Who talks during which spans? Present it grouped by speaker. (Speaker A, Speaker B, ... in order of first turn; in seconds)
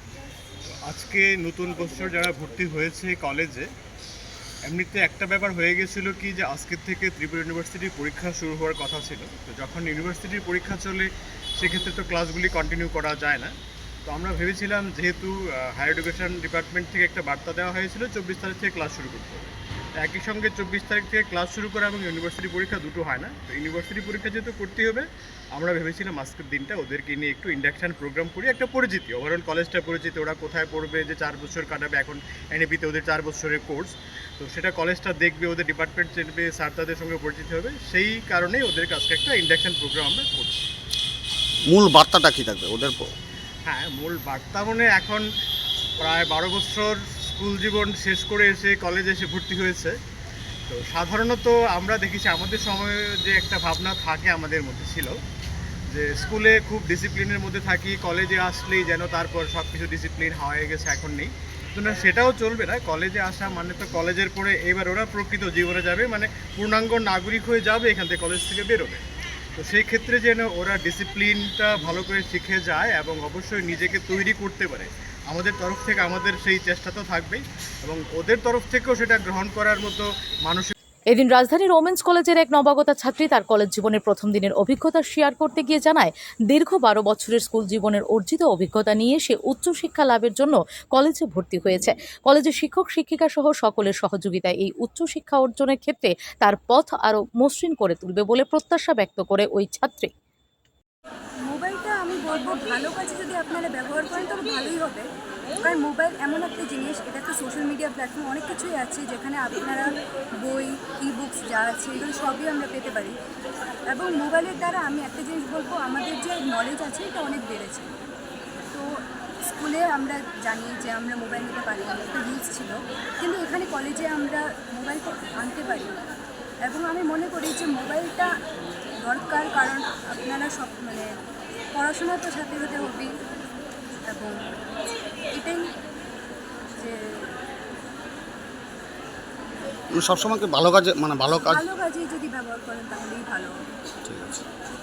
Speaker A: 0.9-3.7, 4.7-13.5, 14.1-40.6, 43.6-45.3, 46.0-50.0, 50.7-55.2, 55.9-69.0, 69.6-80.7
Speaker B: 41.7-43.1, 139.9-141.7, 144.1-144.4
Speaker C: 81.1-100.1
Speaker D: 101.5-105.0, 105.6-109.9, 110.5-113.1, 113.9-117.9, 119.5-126.0, 126.7-128.3, 129.1-131.1, 131.8-133.1, 134.1-134.4, 135.3-135.7, 136.8-137.3, 141.5-143.5